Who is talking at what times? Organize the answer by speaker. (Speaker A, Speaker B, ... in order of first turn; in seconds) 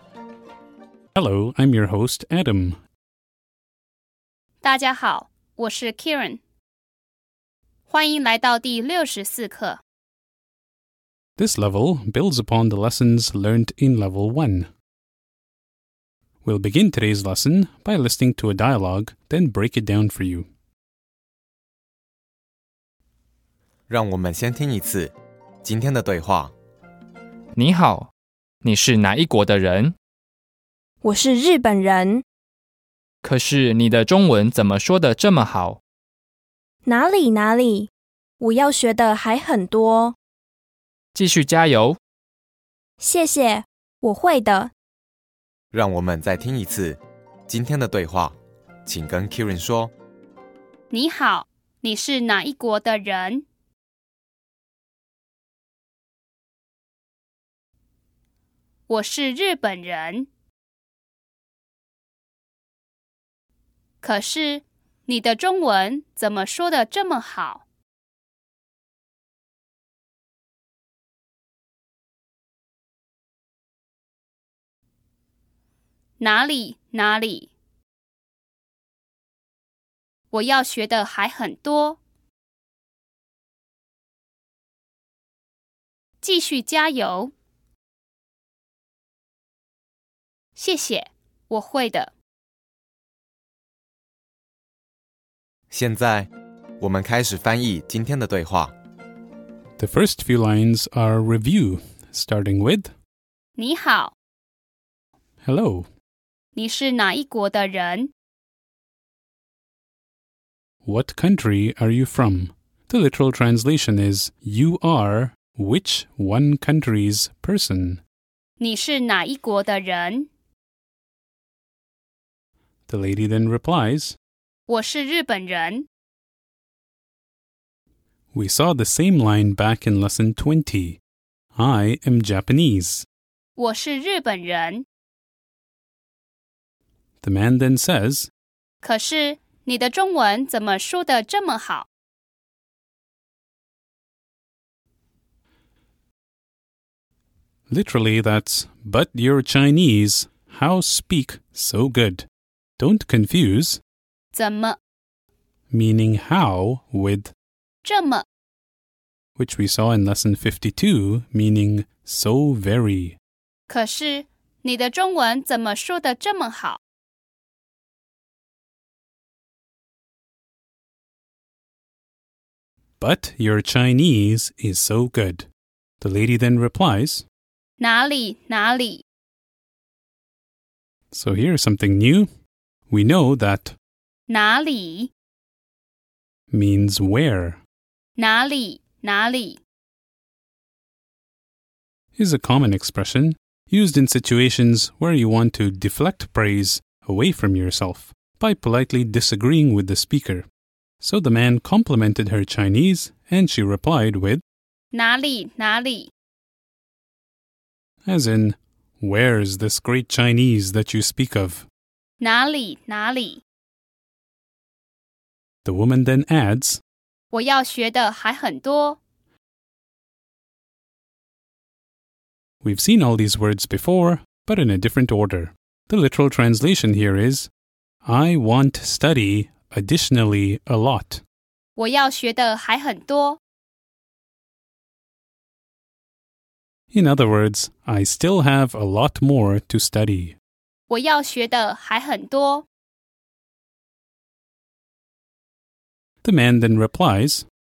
Speaker A: 1.1-2.8, 11.4-14.7, 16.4-20.5, 99.8-102.9, 105.5-105.9, 110.9-118.0, 122.9-124.2, 128.3-131.0, 131.6-133.0, 137.2-138.3, 147.7-152.2, 152.8-153.8, 155.7-157.3, 159.4-163.1, 173.0-175.4, 176.0-177.2, 181.1-182.3, 182.9-183.7, 186.5-187.6, 192.2-200.4, 201.0-204.4, 208.1-211.6, 215.7-216.8, 222.7-227.5, 228.1-231.2, 236.9-240.3, 246.2-247.4
Speaker B: 4.6-6.4, 7.9-9.8, 50.9-53.4, 58.9-60.3, 64.0-67.6, 76.2-77.5, 80.3-82.0, 86.2-87.3, 90.5-92.1, 103.6-104.1, 106.5-108.1, 118.6-120.3, 124.7-125.9, 133.6-134.8, 138.8-141.9, 154.3-154.8, 157.8-158.2, 163.7-166.8, 177.8-179.0, 184.3-185.1, 188.2-189.6, 204.9-206.1, 212.2-213.4, 217.3-219.0, 231.8-233.4, 240.9-242.7
Speaker C: 23.9-26.5, 45.7-49.9, 95.7-98.7
Speaker D: 27.6-28.1, 28.6-29.9, 33.2-35.8, 41.1-42.0
Speaker E: 31.0-32.2, 36.9-40.2, 43.0-44.7